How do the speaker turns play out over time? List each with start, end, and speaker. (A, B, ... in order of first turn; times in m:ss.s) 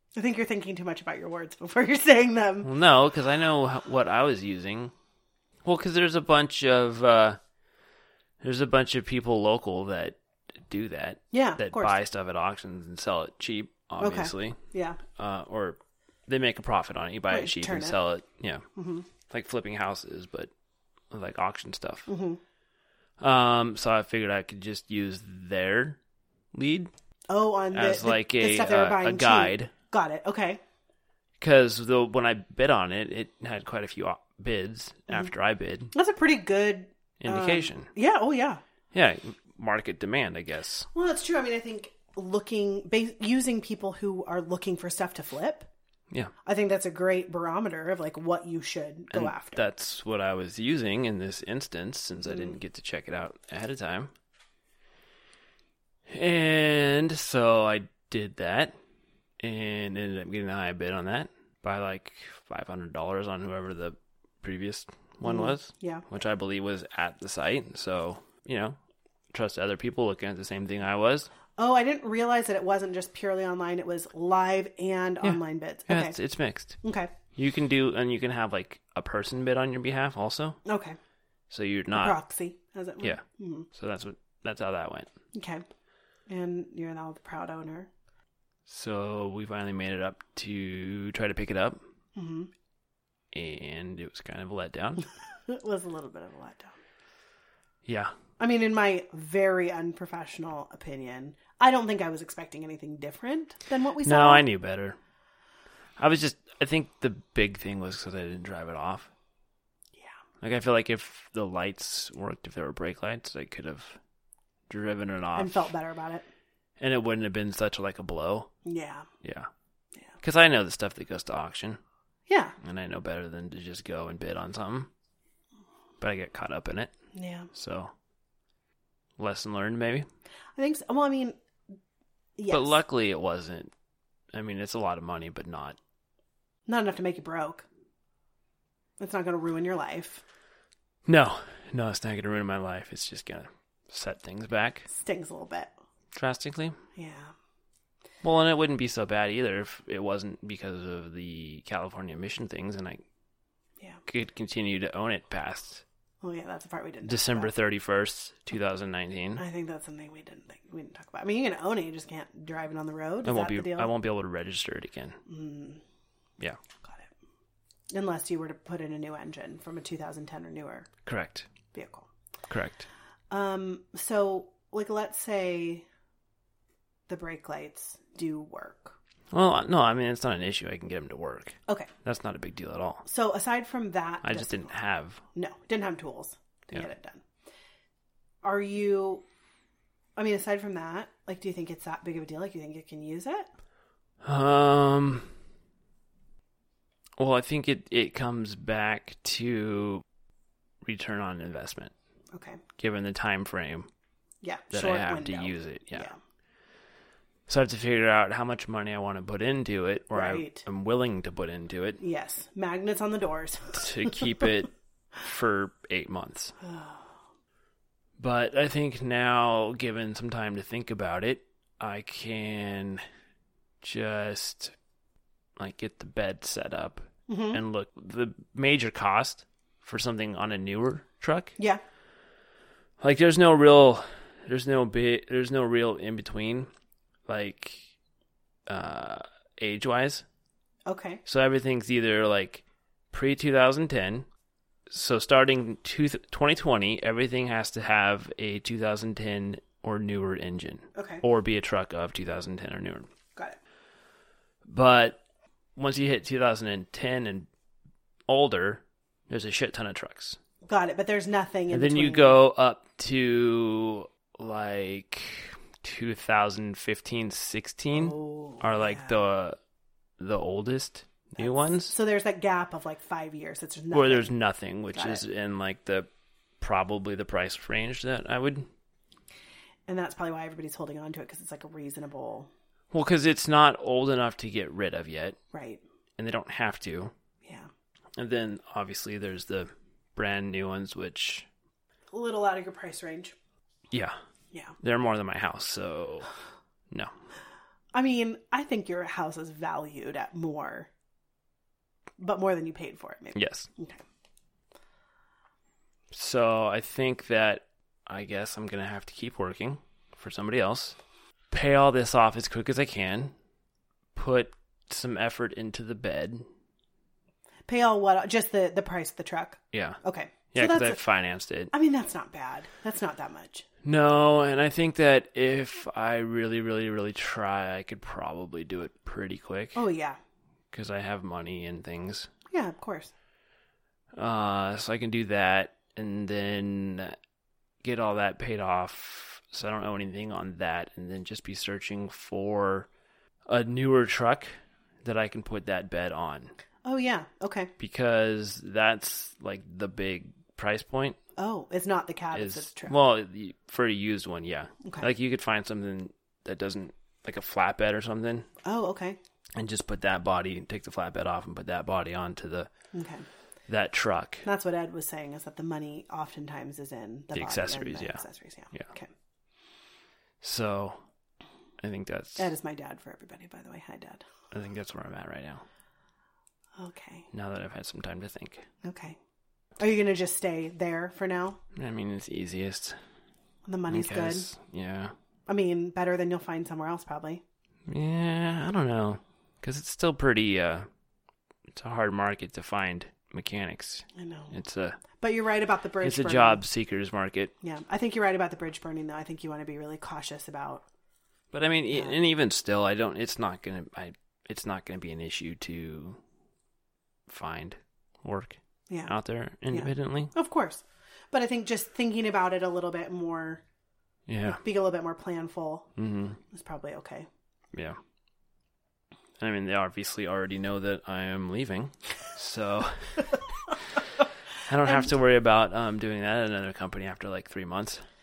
0:00.2-0:02.7 A
0:02.6-0:04.9 B
0:05.6-0:07.4 B
0:08.4-0:14.6 B
0:11.3-0:12.0 A
0:14.0-0:15.0 A
0:15.1-0:18.6 B
0:17.3-0:18.0 A
0:18.8-0:19.1 A
0:19.3-0:20.5 B
0:21.1-0:22.1 B
0:22.1-0:22.4 A
0:23.2-0:26.0 B
0:26.5-0:26.9 B
0:27.3-0:30.6 A
0:27.7-0:29.7 B
0:31.4-0:35.9 B
0:35.9-0:38.6 A
0:37.2-0:37.9 B
0:38.9-0:40.9 B
0:40.9-0:45.7 A
0:46.4-0:49.6 A
0:49.1-0:54.1 B
0:56.1-0:58.8 B
0:59.4-1:08.8 B
1:05.2-1:06.0 A
1:09.3-1:11.3 B
1:11.6-1:16.2 A
1:15.2-1:16.8 B
1:16.8-1:17.1 A
1:17.4-1:20.6 B
1:20.6-1:21.0 A
1:21.5-1:22.2 B
1:21.9-1:23.7 A
1:23.0-1:25.1 B
1:25.3-1:25.6 A
1:26.3-1:27.9 A
1:28.7-1:31.8 B
1:32.2-1:32.5 A
1:33.3-1:35.0 B
1:35.5-1:36.8 A
1:37.8-1:38.1 B
1:38.4-1:44.5 A
1:44.0-1:45.0 B
1:46.0-1:49.1 B
1:50.4-1:54.0 B
1:54.7-1:55.7 B
1:55.4-1:56.3 A
1:56.8-1:58.5 B
1:58.6-1:59.1 A
1:59.2-1:59.5 B
2:00.2-2:01.8 B
2:02.3-2:02.6 A
2:02.6-2:04.9 B
2:06.0-2:06.9 B
2:07.1-2:07.5 A
2:07.5-2:07.9 B
2:09.2-2:10.1 B
2:10.6-2:11.4 A
2:12.4-2:12.8 A
2:12.5-2:13.7 B
2:14.3-2:15.8 B
2:16.7-2:17.6 A
2:19.0-2:20.2 A
2:21.1-2:24.9 B
2:24.9-2:25.7 A
2:26.1-2:26.8 B
2:27.0-2:27.3 A
2:28.2-2:33.0 B
2:34.1-2:35.8 B
2:36.2-2:37.5 A
2:37.0-2:39.4 B
2:39.4-2:43.9 A
2:43.2-2:45.2 B
2:45.3-2:45.8 A
2:46.8-2:47.1 A
2:47.9-2:50.9 A
2:51.1-2:51.5 B
2:51.7-2:52.1 A
2:52.5-2:52.9 B
2:53.3-2:55.9 A
2:57.1-2:59.0 A
2:59.3-3:03.0 B
3:03.0-3:04.7 A
3:04.2-3:05.2 B
3:05.3-3:07.2 A
3:08.4-3:09.2 A
3:10.2-3:13.5 A
3:14.2-3:15.4 B
3:17.2-3:20.0 B
3:20.8-3:21.9 B
3:22.3-3:22.6 A
3:22.8-3:23.9 B
3:24.4-3:26.2 A
3:24.7-3:26.1 B
3:27.5-3:32.0 B
3:30.1-3:30.6 A
3:32.0-3:34.3 A
3:33.7-3:36.6 B
3:36.6-3:37.2 A
3:38.2-3:43.0 B
3:43.8-3:44.8 B
3:45.6-3:51.5 B
3:47.3-3:47.6 A
3:53.0-3:56.7 B
3:57.3-3:57.9 B
3:58.7-4:00.2 B
4:00.9-4:01.2 A
4:01.3-4:04.3 B
4:04.9-4:13.1 B
4:11.0-4:11.2 A
4:14.7-4:15.2 B
4:15.8-4:17.5 B
4:18.3-4:20.4 B
4:20.6-4:22.4 A
4:21.7-4:29.6 B
4:27.9-4:29.2 A
4:30.2-4:32.0 B
4:31.4-4:34.3 A
4:33.9-4:36.1 B
4:34.9-4:35.2 A
4:36.6-4:38.7 B
4:39.9-4:42.5 A
4:42.9-4:45.4 B
4:45.5-4:45.8 A
4:46.2-4:47.1 B
4:47.4-4:47.7 A
4:48.2-4:51.5 B
4:52.1-4:53.4 A
4:53.9-4:54.2 B
4:54.8-4:56.3 B
4:57.9-5:00.9 A
5:02.2-5:04.0 A
5:03.3-5:03.7 B
5:06.1-5:11.0 B
5:11.5-5:13.3 B
5:14.1-5:16.5 B
5:17.7-5:21.0 A
5:19.7-5:20.0 B
5:20.5-5:21.7 B
5:21.7-5:23.6 A
5:23.8-5:29.8 B
5:29.8-5:30.2 A
5:30.7-5:32.3 B
5:32.5-5:33.1 A
5:34.2-5:37.2 B
5:37.8-5:42.9 B
5:43.5-5:46.5 B
5:46.8-5:47.7 A
5:47.8-5:51.2 B
5:51.4-5:53.0 A
5:52.3-5:58.5 B
5:58.6-5:59.2 A
5:59.6-6:02.7 B
6:02.9-6:03.3 A
6:03.7-6:04.4 B
6:04.4-6:09.1 A
6:07.3-6:08.2 B
6:10.4-6:11.0 B
6:11.8-6:12.5 B
6:12.4-6:14.2 A
6:14.5-6:15.6 B
6:16.8-6:17.3 A
6:17.3-6:18.7 B
6:18.8-6:19.2 A
6:19.8-6:21.6 A
6:21.7-6:23.0 B
6:23.7-6:24.5 A
6:23.9-6:25.1 B
6:25.5-6:27.4 A
6:27.9-6:30.9 B
6:31.7-6:35.0 B
6:34.2-6:34.6 A
6:35.2-6:36.6 A
6:36.0-6:37.5 B
6:37.6-6:40.8 A
6:41.5-6:46.2 B
6:47.3-6:50.3 B
6:48.9-6:49.2 A
6:49.7-6:53.6 A
6:54.3-6:54.6 B
6:54.6-6:55.9 A
6:56.0-6:56.4 B
6:56.5-6:57.3 A
6:57.7-6:58.0 B
6:59.4-7:03.4 B
7:04.7-7:08.0 B